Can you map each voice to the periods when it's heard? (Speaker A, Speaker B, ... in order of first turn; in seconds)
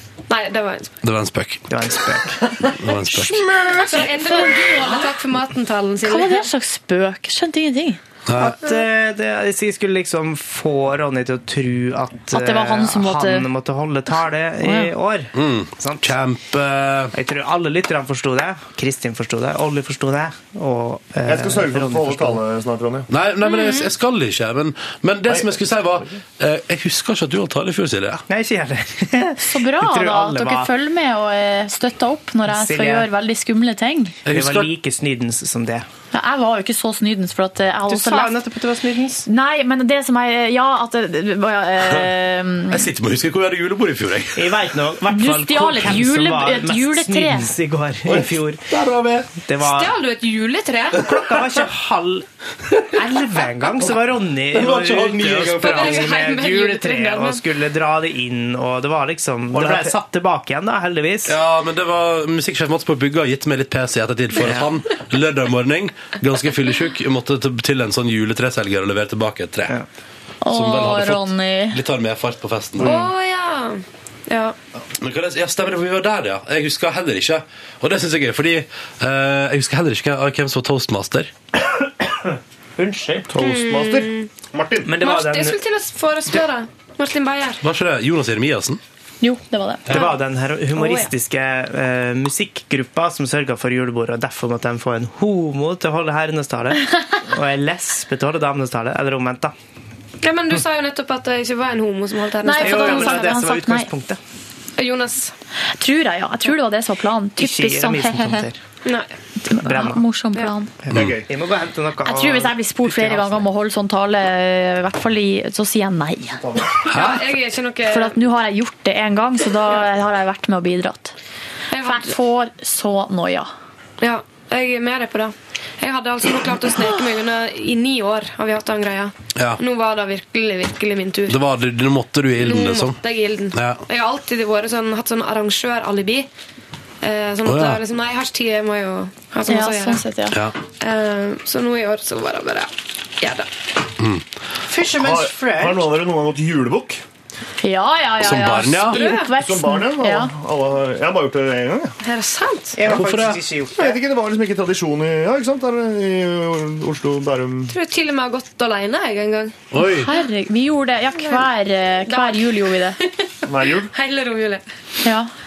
Speaker A: 0.3-0.9, 3.8-6.4, 23.4-23.9, 49.6-51.1, 55.6-57.4, 72.8-74.5, 83.3-84.3, 85.0-87.6, 90.7-91.1, 100.2-103.4, 104.8-105.3, 108.8-109.1, 116.8-118.2, 121.7-122.1, 124.0-131.4, 132.4-136.3, 137.0-140.0, 140.8-142.7, 143.2-143.5, 148.9-149.3, 152.0-152.8, 157.7-159.6, 162.1-164.6
Speaker B: 1.0-1.6, 2.8-3.5, 8.2-8.6, 15.3-17.1, 23.1-28.2, 34.2-34.7, 42.7-44.5, 48.0-49.3, 54.5-56.1, 61.2-69.8, 70.5-73.0, 75.0-81.3, 87.6-88.8, 116.9-117.2, 129.3-129.6, 131.3-133.0, 133.5-133.8, 137.4-137.8, 144.0-144.2, 148.2-149.0, 152.8-153.4, 159.7-160.1
Speaker C: 1.7-4.5, 8.4-16.2, 17.1-22.4, 28.3-30.7, 32.5-33.1, 34.3-35.9, 37.9-39.3, 44.3-48.6, 49.5-50.0, 50.9-52.2, 52.9-61.4, 64.3-64.7, 82.0-83.4, 84.8-85.6, 89.9-99.5, 102.5-104.2, 107.4-108.6, 109.6-110.0, 110.8-113.5, 144.7-146.0, 152.8-154.0
Speaker D: 4.3-4.7, 6.0-8.0, 12.3-13.5, 14.6-14.9, 29.4-34.1, 36.1-38.4, 39.3-42.9, 45.1-47.5, 70.4-71.8, 89.2-90.1, 102.4-103.9, 105.8-108.5, 109.4-110.7, 112.0-116.4, 117.9-121.1, 121.8-123.5, 139.5-140.4, 147.6-150.3, 159.8-163.0, 165.0-165.3
Speaker E: 21.2-23.1, 25.3-26.2, 83.3-84.9, 110.9-111.3, 116.4-116.8, 144.9-147.0, 149.3-151.9, 153.7-157.7, 163.5-163.9